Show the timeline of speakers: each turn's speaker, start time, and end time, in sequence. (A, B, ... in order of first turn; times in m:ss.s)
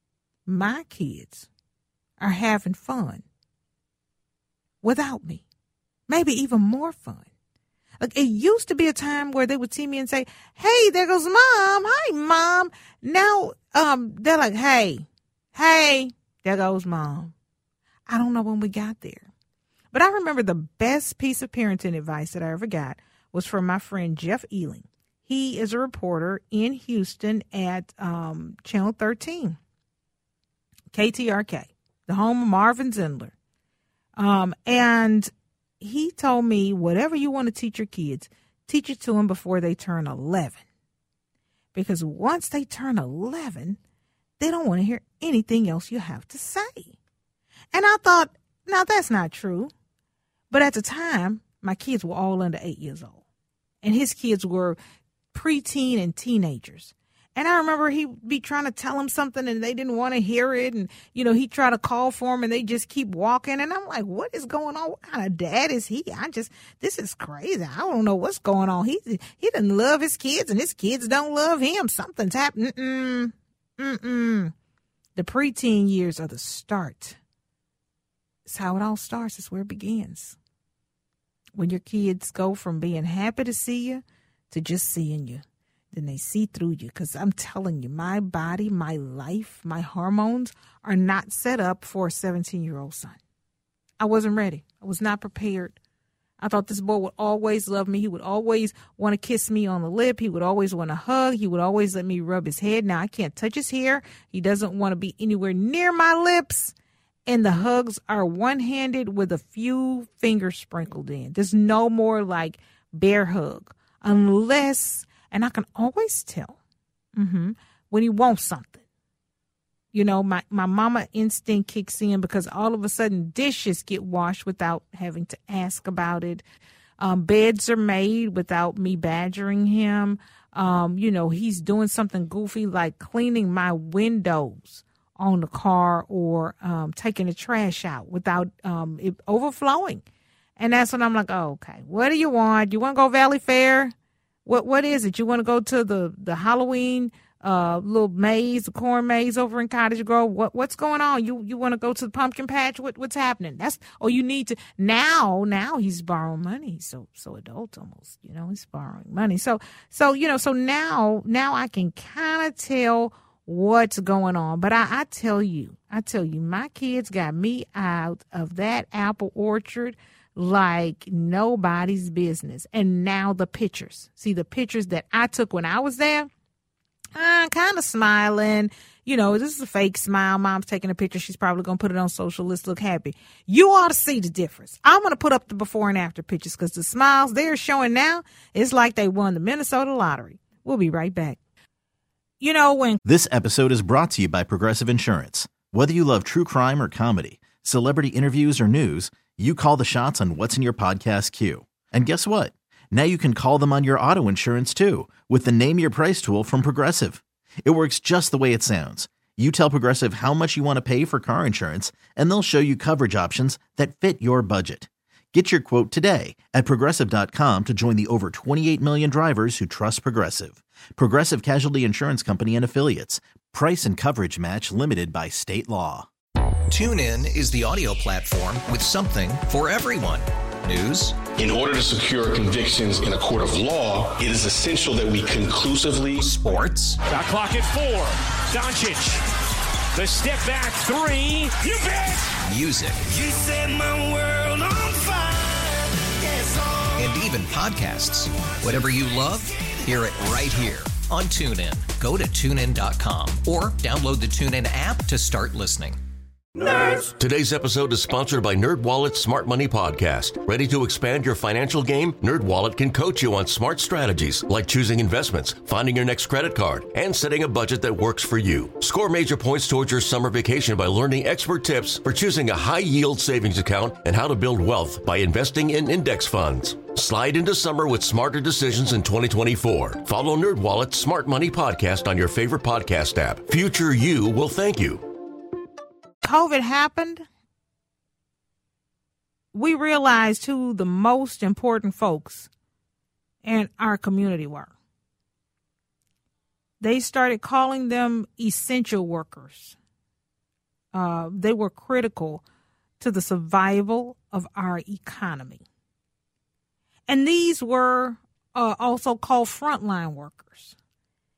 0:00.5-0:01.5 A
0:02.2-0:03.2 A
0:04.8-0:05.4 A
0:06.1-0:07.3 A
0:08.0-0:17.3 A
0:18.1-0:19.3 A
0:19.9-0:29.6 A
0:30.9-0:33.3 A
0:34.2-0:40.6 A
0:41.7-0:43.8 A
0:44.4-0:47.0 A
0:47.7-0:49.7 A
0:50.5-0:53.2 A
0:53.8-0:54.8 A
0:55.3-1:14.5 A
1:15.2-1:17.2 A
1:18.5-1:20.4 A
1:21.6-1:33.2 A
1:34.0-1:35.8 A
1:36.4-1:46.7 A
1:47.3-1:56.6 A
1:57.2-1:58.8 A
1:59.9-2:06.4 A
2:07.0-2:20.0 A
2:20.6-2:23.9 A
2:24.5-2:56.3 A
2:57.2-3:11.4 A
3:12.4-3:13.0 A
3:13.0-3:46.1 B
3:46.7-3:51.2 C
3:51.4-3:56.2 D
3:56.2-3:57.0 C
3:57.0-3:59.2 E
3:59.9-4:01.7 E
4:01.7-4:02.3 F
4:02.5-4:03.0 C
4:03.0-4:07.0 F
4:07.0-4:16.0 C
4:16.6-4:17.0 F
4:17.0-4:45.1 G
4:46.2-4:47.3 A
4:49.5-4:52.5 A
4:53.4-4:54.7 A
4:56.8-4:59.8 A
5:00.9-5:02.4 A
5:03.0-5:05.6 A
5:07.1-5:10.8 A